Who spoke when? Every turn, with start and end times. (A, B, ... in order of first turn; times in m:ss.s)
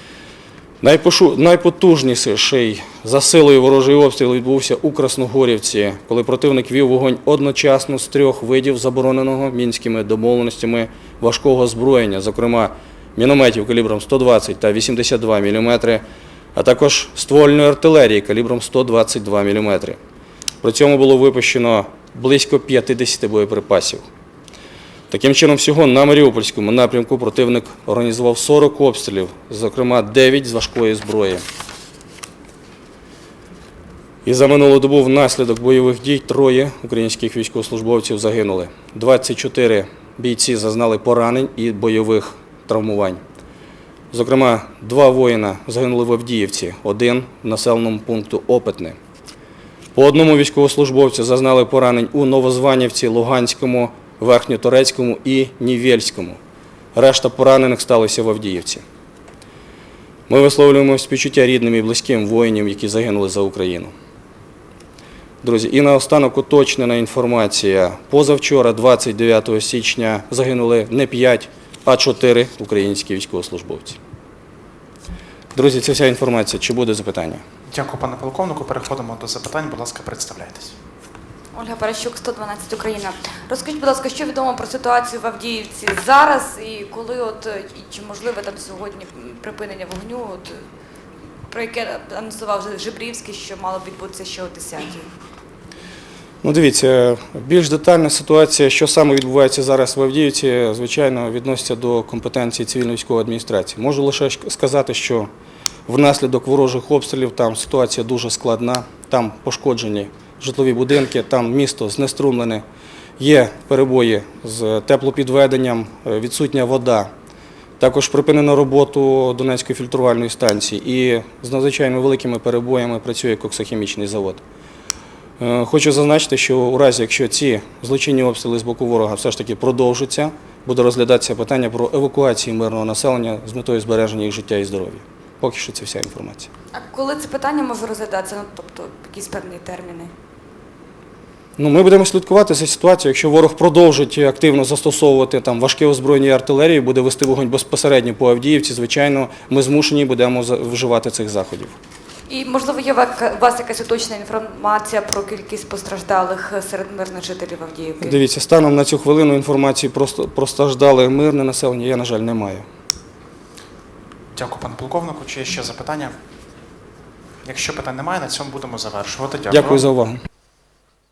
0:00.8-0:16.0 A
0:16.5-0:20.0 A
0:20.6-0:24.0 A
0:25.1-0:31.4 A
0:34.2-0:43.2 A
0:44.1-0:49.0 A
0:49.9-0:56.4 A
0:56.9-0:58.8 A
1:00.3-1:03.9 A
1:05.4-1:14.0 A
1:15.5-1:17.4 A
1:17.7-1:20.7 B
1:21.5-1:30.6 C
1:31.5-1:35.1 C
1:36.4-1:45.3 A
1:45.9-1:52.6 A
1:53.2-1:57.1 A
1:57.8-2:04.4 A
2:05.4-2:16.5 A
2:16.7-2:20.1 C
2:21.6-2:31.8 A
2:32.3-2:38.2 C
2:38.0-2:42.6 A
2:44.3-2:46.1 B
2:47.4-2:49.8 B
2:49.5-2:50.2 A